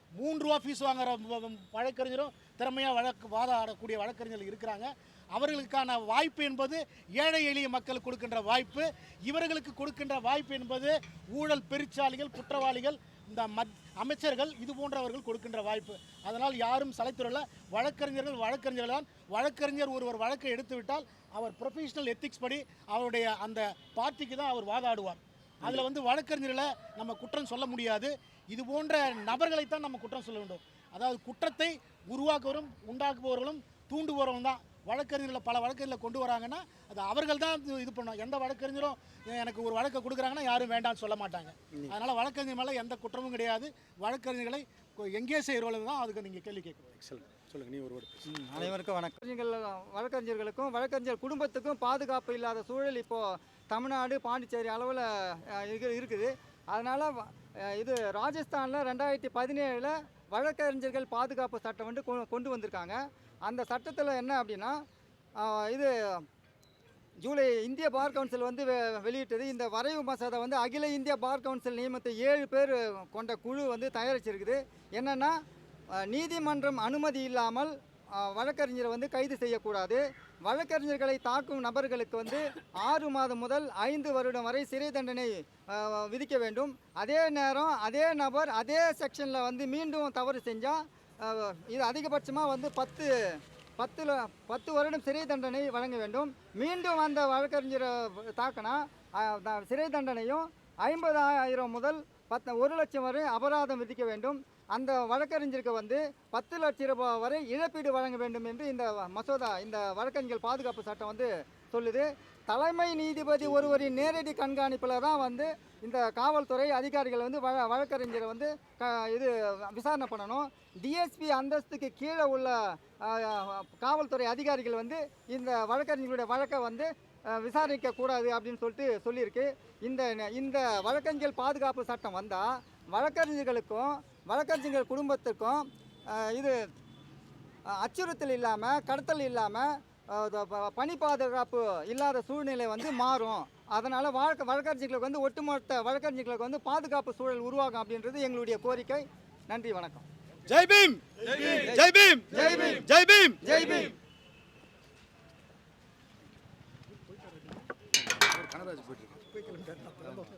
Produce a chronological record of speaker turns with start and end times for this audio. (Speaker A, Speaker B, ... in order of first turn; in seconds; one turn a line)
Speaker A: 0.2-47.0
Speaker B: 47.0-48.2
Speaker C: 48.3-64.8
Speaker C: 65.4-66.2
Speaker C: 67.2-75.3
Speaker C: 76.1-136.6
Speaker C: 137.8-150.1
Speaker B: 150.5-152.3
Speaker C: 152.3-152.8
Speaker B: 152.8-153.4
Speaker C: 153.4-153.9
Speaker B: 158.3-159.2